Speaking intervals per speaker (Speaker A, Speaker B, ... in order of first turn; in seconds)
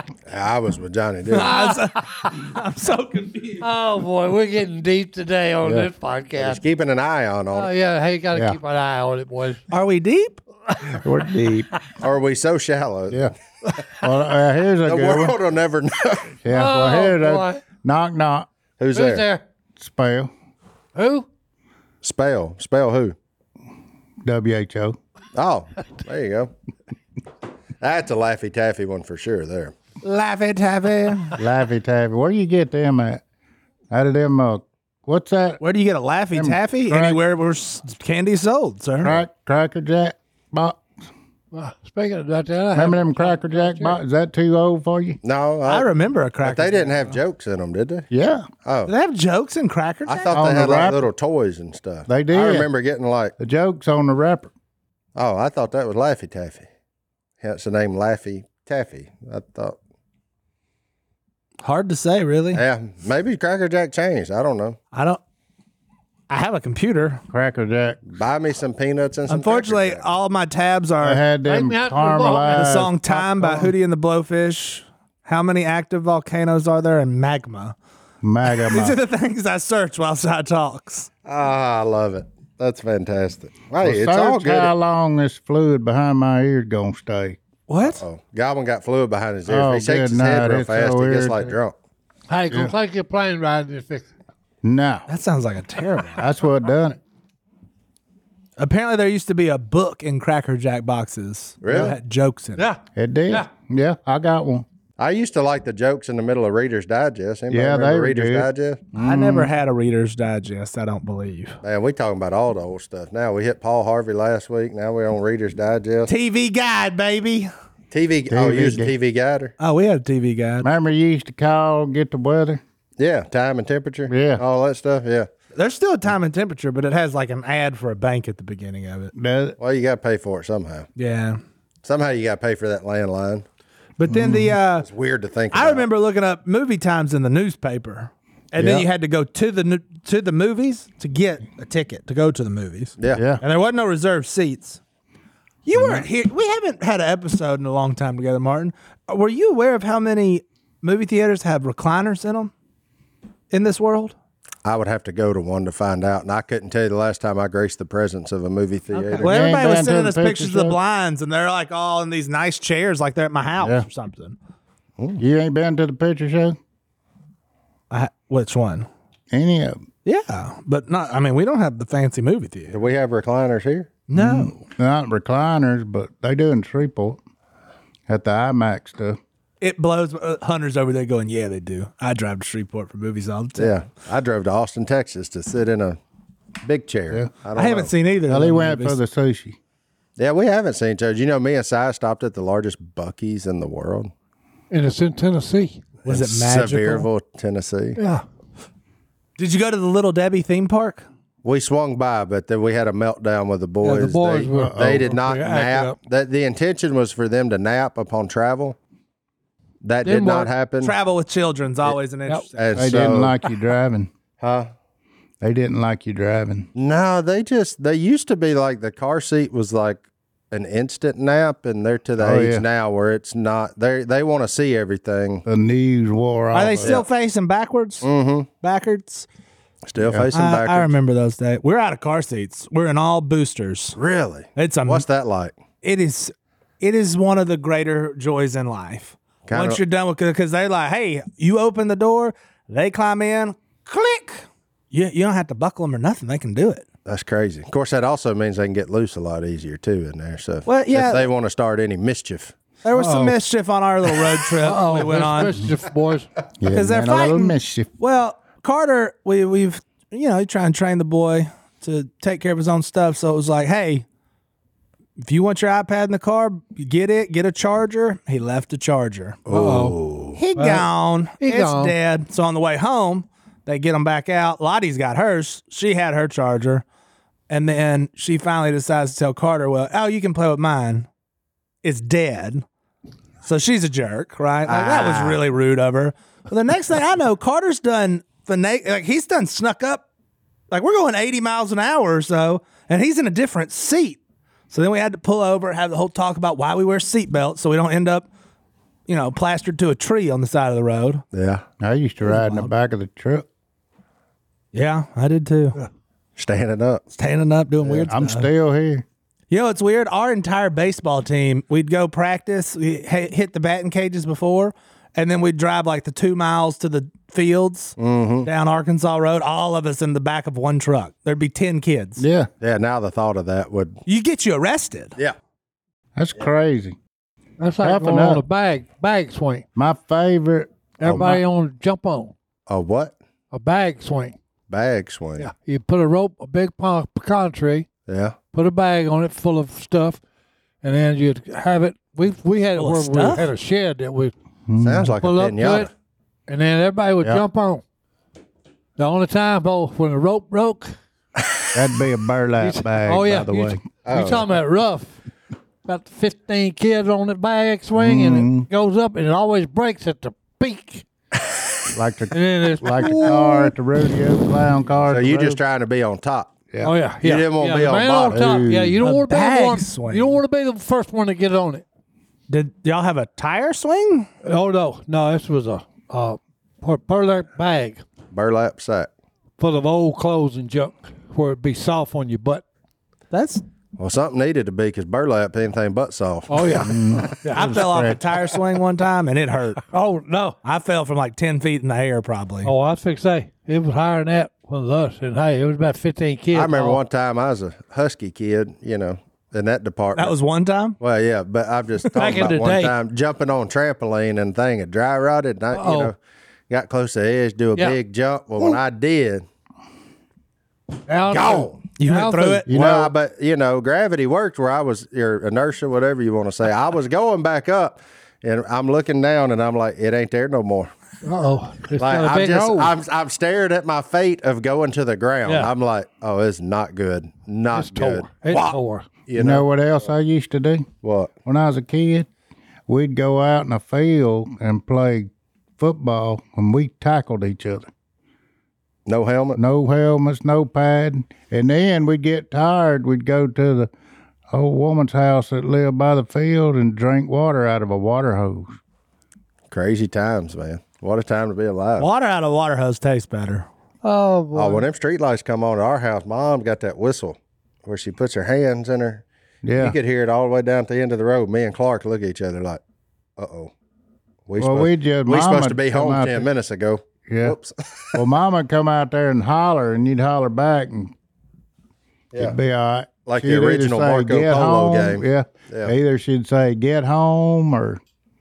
Speaker A: 0.3-1.6, 6.4-7.7, 12.0-13.3, 14.8-16.3, 18.8-19.2, 22.0-23.1, 25.3-26.5, 27.8-29.7, 45.2-45.9, 46.4-48.1, 48.6-48.9, 50.0-53.3, 55.1-56.7, 57.4-59.8, 62.5-64.8, 68.1-70.0, 81.2-84.7, 87.8-91.7, 101.6-102.0, 105.0-108.8, 111.6-116.1, 117.9-119.5, 123.0-125.3, 129.6-130.9, 131.8-133.4, 134.8-135.8, 154.6-159.3, 172.7-173.9, 183.6-186.0, 186.6-187.9, 190.2-194.1, 196.1-198.0, 201.4-208.8, 209.8-210.9, 212.6-213.3, 214.4-214.7, 216.7-225.4, 228.0-228.5, 229.8-230.9, 233.9-235.5, 239.5-239.8, 247.1-252.5, 269.5-270.4, 284.7-285.4, 301.3-301.6, 306.4-307.0, 318.0-318.5, 322.6-324.0, 332.7-333.1, 334.7-335.5, 338.1-338.4, 344.8-345.9, 354.1-354.5, 365.1-366.5, 367.2-368.4, 378.3-379.1, 384.0-386.9, 396.5-400.3, 401.0-406.1, 406.7-409.4, 411.3-411.8, 412.7-420.9, 422.0-429.7, 431.0-431.3, 439.1-439.6, 449.7-452.1, 454.5-459.2, 459.8-462.8, 463.4-463.7, 464.5-468.2, 473.2-475.9
Speaker B: 1.3-3.6, 9.7-10.4, 30.0-31.4, 35.6-39.2, 45.6-47.1, 48.9-50.4, 61.6-62.6, 64.9-65.2, 66.3-67.2, 69.3-71.2, 72.5-77.7, 78.6-81.1, 87.7-88.0, 95.1-96.2, 98.6-102.6, 109.0-111.6, 116.1-117.5, 119.6-120.7, 125.5-129.1, 131.0-131.4, 134.0-134.9, 135.5-144.8, 145.7-152.5, 153.5-154.1, 158.9-164.4, 167.9-168.9, 170.0-172.8, 174.1-174.6, 179.6-183.8, 187.5-189.0, 196.0-197.1, 199.4-201.0, 210.8-212.9, 226.5-228.1, 228.6-229.3, 230.3-234.0, 234.6-235.0, 235.8-246.8, 250.7-251.3, 252.8-255.6, 256.7-264.0, 265.2-269.4, 270.4-276.8, 277.5-281.1, 281.8-282.6, 283.4-290.0, 290.7-294.2, 294.7-298.3, 299.1-301.2, 302.2-302.7, 304.7-305.8, 307.2-308.5, 309.5-322.2, 324.1-325.1, 342.8-343.5, 369.0-370.4, 372.5-374.3, 383.3-383.6, 387.4-389.8, 390.6-392.7, 400.1-401.0, 412.0-412.7, 452.0-453.7
Speaker C: 1.4-1.9, 3.6-6.6, 7.5-9.6, 10.7-11.0, 16.5-17.6, 18.9-19.4, 20.9-21.3, 41.5-44.0, 71.4-73.5, 92.3-94.1, 102.5-103.5, 194.7-195.8, 198.0-198.2, 203.8-206.0, 210.0-210.5, 252.9-253.3, 254.6-256.3, 269.5-269.9, 270.6-270.9, 271.4-271.9, 327.6-329.6, 331.0-332.3, 333.5-334.4, 335.4-337.9, 338.5-340.2, 340.8-344.3, 345.2-345.9, 346.5-347.8, 349.0-350.9, 352.6-355.1, 355.8-361.1, 362.3-363.7, 366.8-371.8, 374.4-378.0, 379.6-382.6, 386.5-387.0, 389.9-390.6, 392.6-397.0, 402.1-402.9, 405.7-406.1, 411.1-412.6, 421.2-422.9, 425.4-425.7, 427.7-429.1, 454.0-454.8
Speaker D: 5.6-5.9, 10.9-11.7, 14.0-15.4, 16.4-18.5, 19.8-20.3, 24.2-25.0, 31.4-33.2, 33.9-35.6, 36.3-37.2, 39.0-40.8, 42.7-45.2, 48.1-48.5, 50.3-51.0, 52.1-52.7, 53.4-54.5, 67.3-68.0, 71.0-73.7, 78.2-79.0, 83.8-87.4, 89.5-91.5, 94.6-95.0, 96.2-97.0, 102.9-104.7, 107.5-109.5, 118.3-118.9, 120.6-122.6, 124.1-124.4, 129.1-129.6, 134.1-134.5, 138.6-138.8, 143.1-143.4, 145.7-146.1, 159.2-160.8, 163.6-163.8, 165.2-166.6, 169.3-169.8, 174.1-177.2, 178.1-179.2, 188.3-189.6, 204.6-205.1, 212.7-214.1, 215.4-216.7, 222.2-222.6, 225.4-227.0, 230.0-230.2, 256.6-257.9, 301.8-303.4, 308.1-309.0, 322.2-322.5, 326.1-327.0, 327.8-328.4, 329.8-331.4, 344.7-345.1, 351.7-353.8, 358.0-358.7, 361.9-365.6, 368.3-369.0, 386.8-388.2, 412.7-413.1, 429.4-430.9, 431.4-432.3, 432.9-437.9, 439.6-443.9, 444.5-448.7, 459.6-459.9, 464.6-466.5, 467.2-467.6, 468.1-471.1, 472.4-478.0